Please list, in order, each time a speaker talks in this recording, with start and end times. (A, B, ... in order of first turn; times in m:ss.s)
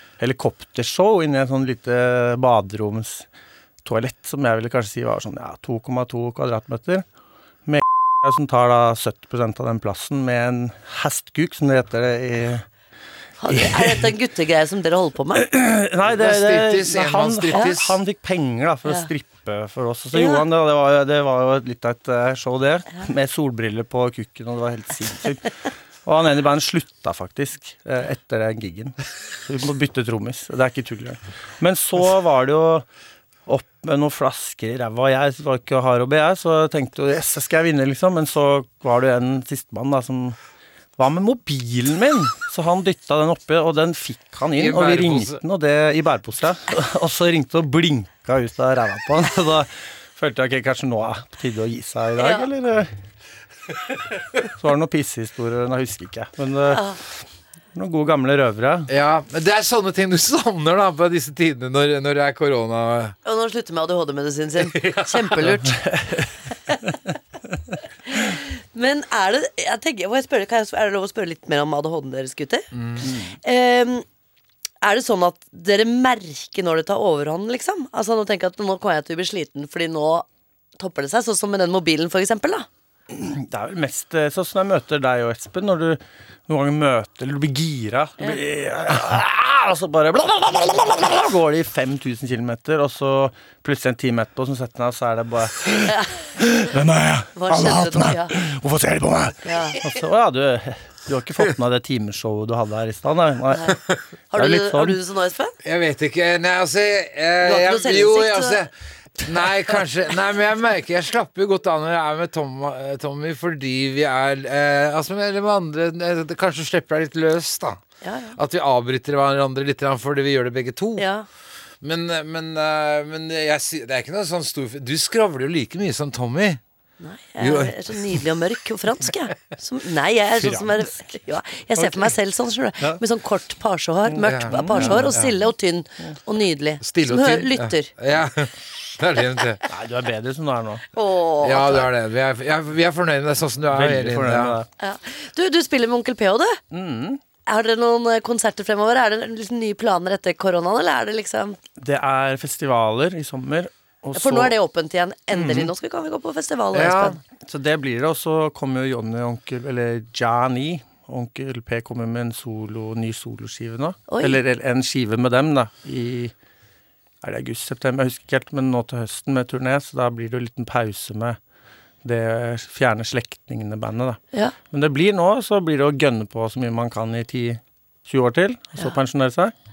0:00.2-0:03.2 A
0:03.8-0:07.0 A
0:07.6-0:12.6 A
0:13.4-0:15.5 B
0:13.5-0:14.1 A
0:15.4-0:32.8 A
0:16.0-0:18.0 C
0:20.1-0:20.4 B
0:33.5-0:40.4 A
0:41.0-0:52.9 A
0:44.5-0:45.4 C
0:52.2-0:52.5 B
0:54.5-0:56.9 A
0:56.7-0:57.0 B
0:57.7-0:58.9 A
0:58.9-1:03.2 C
1:03.2-1:05.8 B
1:04.6-1:05.5 C
1:05.7-1:06.3 A
1:08.1-1:12.7 B
1:12.7-1:13.1 C
1:13.0-1:13.4 A
1:13.4-1:14.0 B
1:14.8-1:20.3 B
1:20.8-1:22.7 B
1:23.1-1:43.8 A
1:35.9-1:36.1 B
1:37.3-1:38.3 B
1:39.4-1:39.8 B
1:43.5-1:43.8 B
1:44.3-1:45.6 B
1:44.3-1:45.0 A
1:45.6-1:48.7 C
1:47.4-1:48.6 B
1:49.2-1:57.8 C
1:58.0-1:58.4 B
1:58.4-2:01.1 C
2:01.0-2:01.2 B
2:01.8-2:06.6 C
2:07.0-2:17.9 B
2:07.4-2:08.2 C
2:10.4-2:10.8 A
2:11.8-2:12.1 A
2:14.2-2:15.3 C
2:14.5-2:15.1 A
2:16.8-2:19.6 C
2:19.7-2:20.8 A
2:20.9-2:21.9 B
2:21.4-2:24.6 C
2:23.7-2:24.7 A
2:24.8-2:26.6 B
2:26.7-2:27.2 A
2:27.4-2:31.6 B
2:31.8-2:34.5 A
2:34.1-2:37.2 B
2:35.3-2:35.7 A
2:36.7-2:37.2 C
2:37.4-2:46.3 A
2:44.1-2:44.4 B
2:47.2-2:51.4 A
2:52.0-2:59.5 A